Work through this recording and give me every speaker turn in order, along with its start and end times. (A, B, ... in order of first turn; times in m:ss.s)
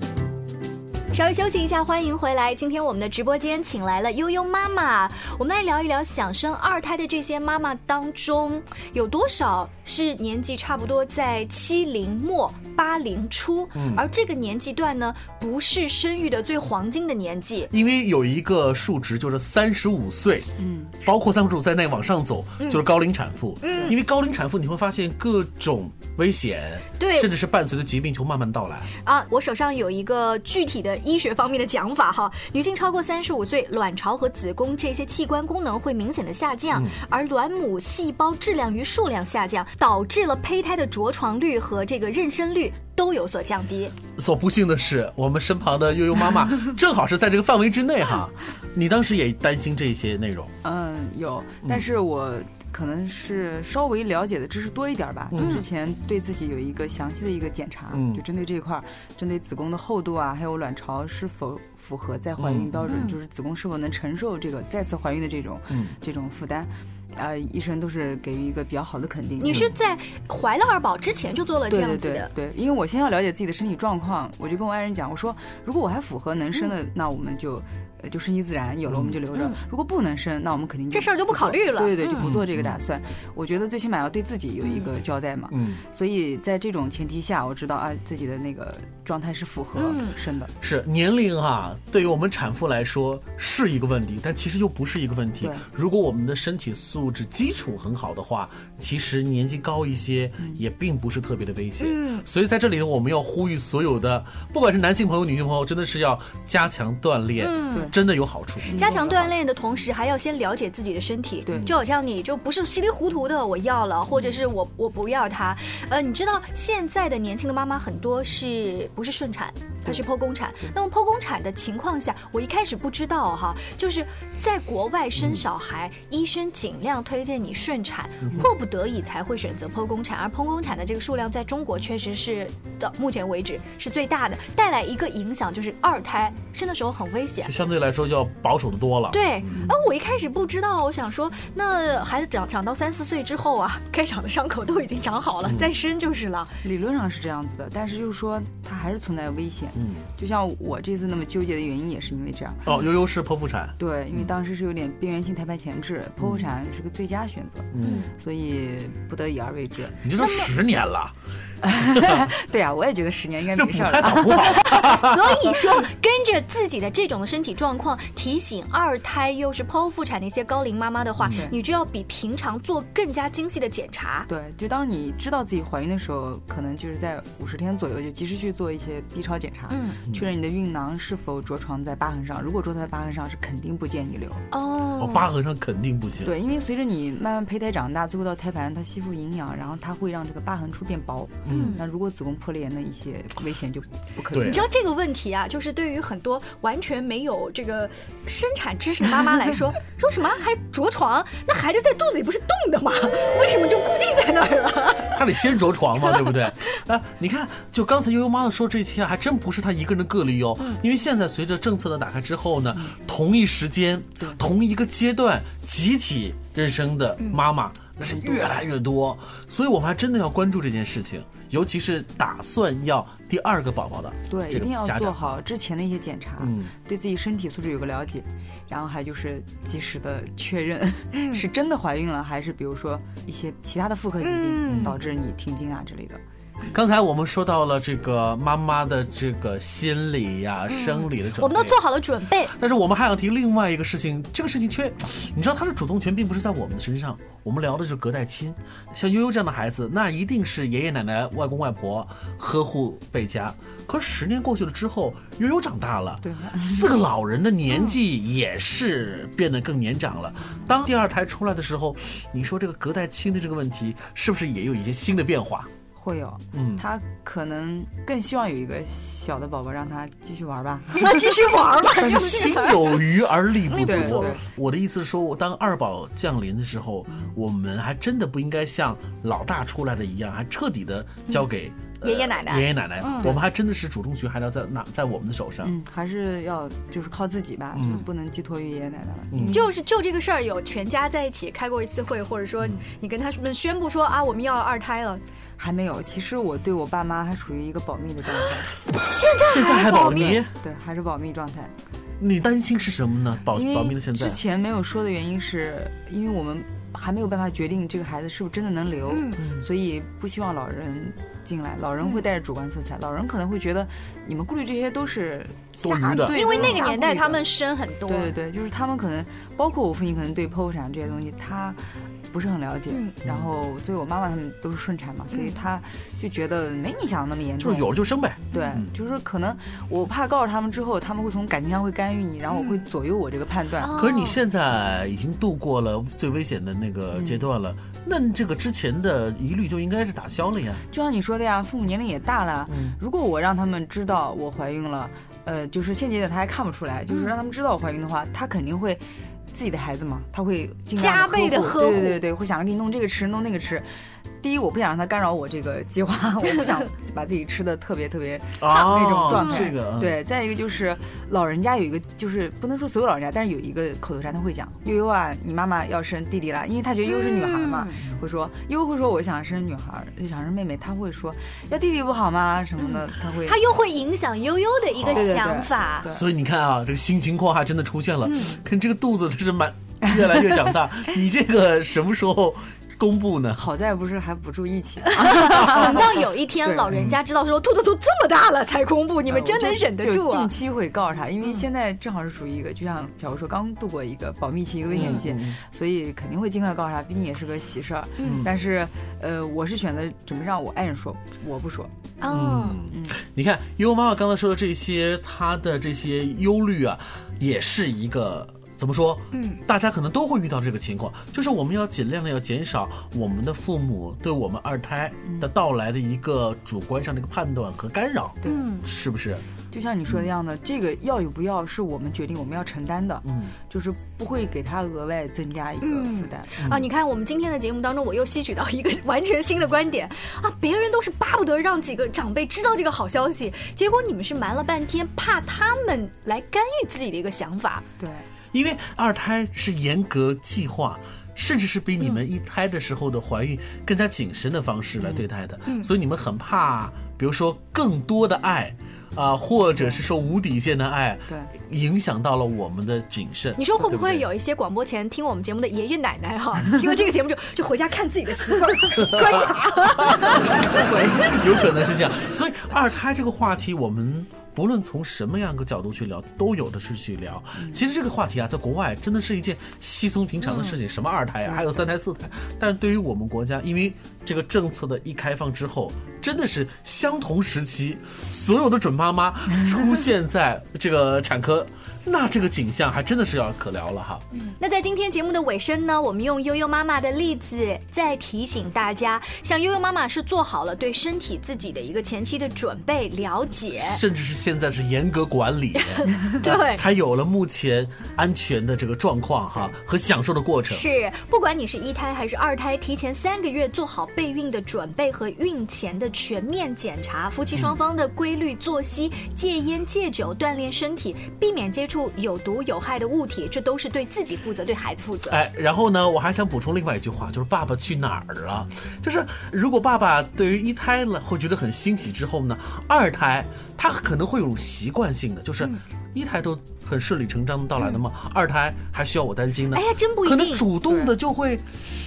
0:01.1-0:17.7 A
0:13.8-0:14.0 B
0:17.7-0:28.9 B
0:20.6-0:20.9 C
0:22.6-0:22.9 A
0:23.6-0:24.0 A
0:27.0-0:27.3 A
0:29.0-0:44.0 A
0:36.7-0:37.0 B
0:44.2-0:50.5 B
0:50.6-1:09.7 C
0:55.3-0:55.6 B
0:55.4-0:55.6 A
0:57.9-0:58.2 B
1:02.4-1:03.0 B
1:02.9-1:03.2 A
1:05.7-1:06.0 B
1:09.4-1:12.3 A
1:11.7-1:30.5 C
1:18.9-1:19.2 B
1:19.3-1:19.6 A
1:20.9-1:22.3 A
1:22.2-1:22.8 B
1:24.6-1:24.9 A
1:25.5-1:25.8 B
1:29.8-1:30.2 A
1:30.6-1:48.8 B
1:35.4-1:35.6 C
1:41.8-1:42.3 A
1:47.4-1:47.9 A
1:48.6-1:49.4 C
1:48.7-2:17.5 A
1:51.4-1:51.7 C
2:05.2-2:05.4 B
2:08.2-2:08.5 B
2:17.4-2:19.5 B
2:19.1-2:26.6 A
2:25.4-2:25.7 B
2:26.6-2:32.7 C
2:29.7-2:30.1 B
2:32.6-2:34.3 B
2:33.8-2:40.0 C
2:36.2-2:36.5 B
2:37.7-2:38.1 B
2:40.0-2:41.1 B
2:40.2-2:40.5 A
2:41.6-2:44.7 C
2:41.9-2:42.3 B
2:43.5-2:45.6 B
2:44.5-2:54.3 A
2:51.2-2:51.5 B
2:54.3-3:04.4 C
2:59.7-3:00.0 A
3:04.5-3:05.3 A
3:05.0-3:06.4 B
3:06.2-3:14.7 C
3:11.4-3:11.8 B
3:11.5-3:11.8 A
3:14.3-3:14.6 B
3:14.4-3:25.2 A
3:25.1-3:45.3 B
3:26.1-3:26.3 A
3:38.0-3:38.5 C
3:44.3-3:56.2 C
3:46.4-3:46.7 B
3:51.1-3:51.4 A
3:54.2-3:55.0 A
3:54.7-3:55.0 B
3:56.7-4:01.8 B
4:00.7-4:02.5 A
4:02.5-4:25.7 B
4:16.2-4:17.0 C
4:17.7-4:18.0 A
4:25.9-4:31.2 C
4:26.5-4:26.9 B
4:30.9-4:33.0 A
4:31.8-4:45.7 B
4:33.7-4:34.4 A
4:33.8-4:34.4 C
4:37.1-4:37.3 C
4:42.0-4:43.4 A
4:45.6-4:49.7 C
4:47.7-4:48.0 B
4:49.3-4:49.6 B
4:49.5-4:55.2 A
4:55.6-4:58.7 C
4:59.0-5:00.4 A
4:59.4-5:00.5 B
5:00.5-5:01.7 C
5:02.2-5:04.4 B
5:03.5-5:17.4 C
5:09.1-5:09.4 A
5:09.4-5:09.6 B
5:12.0-5:12.3 A
5:15.8-5:16.9 B
5:16.3-5:18.3 A
5:18.1-5:27.9 C
5:22.9-5:23.2 A
5:25.3-5:25.6 A
5:27.6-5:28.9 B
5:28.5-5:33.9 C
5:28.5-5:28.8 A
5:32.5-5:32.8 A
5:33.8-5:34.4 A
5:33.9-5:40.8 B
5:37.1-5:37.4 C
5:40.9-5:53.9 C
5:42.7-5:43.0 B
5:47.1-5:47.4 A
5:51.0-5:52.2 A
5:54.4-6:13.6 C
5:58.6-6:00.2 B
5:59.3-5:59.7 A
6:07.0-6:08.0 A
6:12.8-6:16.1 A
6:14.9-6:15.4 B
6:15.1-6:16.2 C
6:16.1-6:23.7 B
6:18.2-6:18.6 A
6:23.6-6:27.0 C
6:25.1-6:30.5 A
6:26.9-6:27.2 B
6:29.3-6:42.0 C
6:34.9-6:35.6 B
6:35.0-6:35.2 A
6:38.2-6:38.5 A
6:38.2-6:38.5 B
6:42.2-6:42.9 A
6:42.3-6:59.4 B
6:42.9-6:43.2 C
6:49.3-6:49.6 A
6:58.4-6:58.7 C
6:58.4-6:58.9 A
6:59.7-7:06.7 C
7:03.2-7:03.5 B
7:05.8-7:17.9 A
7:06.6-7:06.9 B
7:18.0-7:18.3 C
7:18.5-7:34.3 B
7:25.6-7:25.9 A
7:33.6-7:40.9 A
7:39.0-7:39.4 B
7:40.8-8:04.2 B
7:40.8-7:41.2 C
7:50.4-7:50.7 A
8:04.4-8:14.0 A
8:13.8-8:20.9 B
8:15.8-8:16.8 A
8:20.7-8:35.4 A
8:27.5-8:27.8 B
8:35.3-8:51.6 B
8:49.7-8:50.7 A
8:50.9-8:51.1 C